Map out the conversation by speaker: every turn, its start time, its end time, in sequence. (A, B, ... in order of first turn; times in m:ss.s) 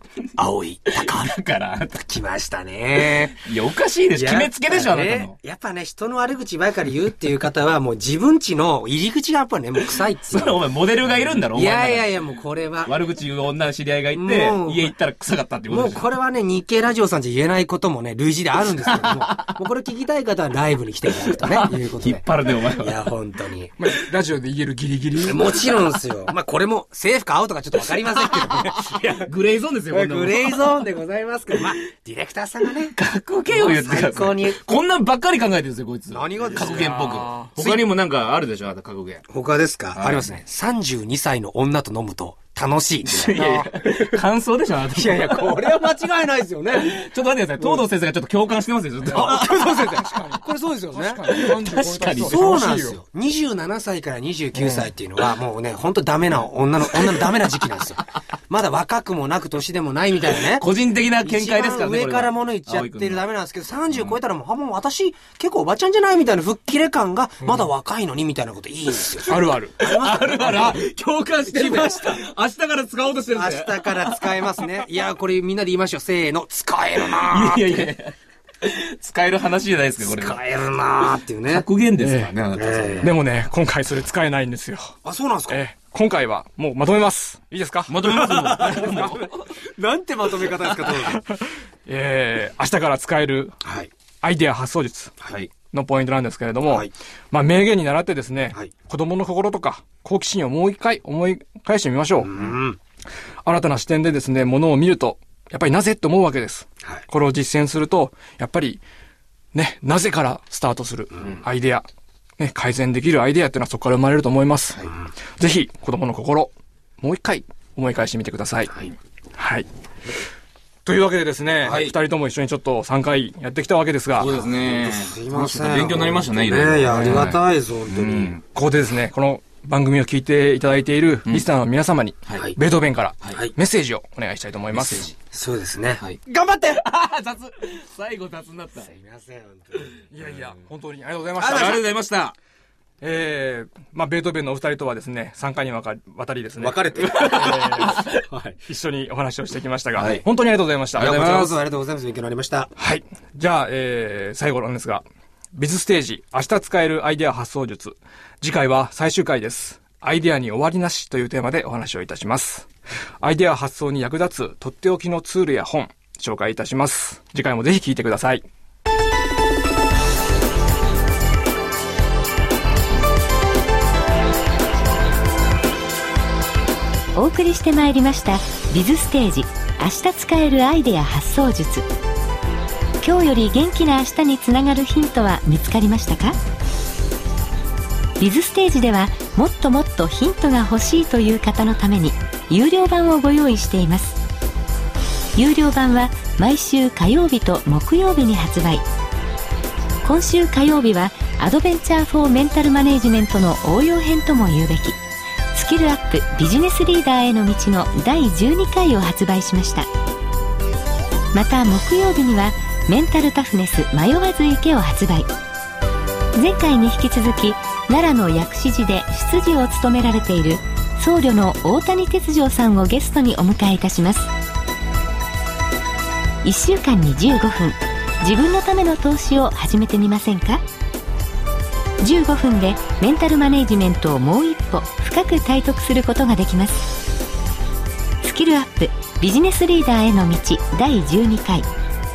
0:00.4-0:01.4 A
0:00.9-0:02.0 B
0:01.9-0:03.4 A
0:03.0-0:05.4 B
0:04.1-0:10.6 A
0:10.3-0:12.3 B
0:11.4-0:13.0 A
0:12.8-0:16.1 B
0:14.1-0:14.9 A
0:15.7-0:23.7 A
0:18.9-0:19.5 B
0:21.3-0:23.0 B
0:23.8-0:25.7 C
0:25.2-0:29.2 A
0:25.5-0:25.8 B
0:27.9-0:30.8 B
0:29.9-0:33.0 A
0:33.0-0:39.2 B
0:33.5-0:34.6 A
0:36.1-0:37.9 A
0:36.6-0:37.5 C
0:39.3-0:44.0 A
0:40.0-0:40.3 B
0:43.0-0:45.8 B
0:44.9-0:47.0 A
0:46.7-0:49.8 B
0:49.1-1:00.7 A
0:49.1-0:53.0 C
0:51.3-0:52.7 B
0:54.6-0:54.9 C
1:00.5-1:03.2 B
1:01.2-1:10.8 A
1:07.4-1:07.7 C
1:09.3-1:09.9 C
1:09.8-1:14.7 B
1:11.4-1:12.2 A
1:13.3-1:17.8 A
1:17.0-1:20.4 B
1:20.0-1:21.7 A
1:21.5-1:23.1 B
1:22.0-1:22.3 C
1:22.5-1:23.1 A
1:23.0-1:25.0 C
1:25.0-1:25.6 A
1:25.5-1:29.3 C
1:27.9-1:29.3 B
1:28.2-1:31.2 A
1:31.1-1:33.6 C
1:33.6-1:33.9 A
1:34.2-1:42.4 C
1:35.2-1:35.5 B
1:42.2-1:42.8 A
1:43.4-1:48.8 C
1:49.5-1:51.9 C
1:52.4-1:54.9 C
1:55.4-1:58.8 C
1:59.4-1:59.7 C
2:00.9-2:04.4 C
2:01.7-2:01.9 B
2:04.2-2:08.4 B
2:04.2-2:08.4 A
2:06.9-2:07.3 C
2:08.5-2:15.1 C
2:14.7-2:15.2 B
2:15.3-2:16.8 A
2:16.0-2:18.9 B
2:18.8-2:20.0 A
2:20.1-2:21.9 C
2:21.4-2:22.4 B
2:23.0-2:28.0 C
2:26.6-2:28.6 A
2:27.0-2:28.2 B
2:28.7-2:31.6 C
2:30.0-2:30.2 B
2:31.0-2:32.7 A
2:32.8-2:42.7 C
2:43.2-2:48.4 C
2:57.2-3:01.9 D
3:03.0-3:06.4 D
3:08.2-3:14.2 D
3:15.4-3:18.8 D
3:20.0-3:25.0 D
3:25.5-3:29.9 D
3:31.3-3:35.3 D
3:36.4-3:44.3 D
3:46.4-3:50.6 D
3:52.0-3:56.9 D
3:58.2-4:01.7 D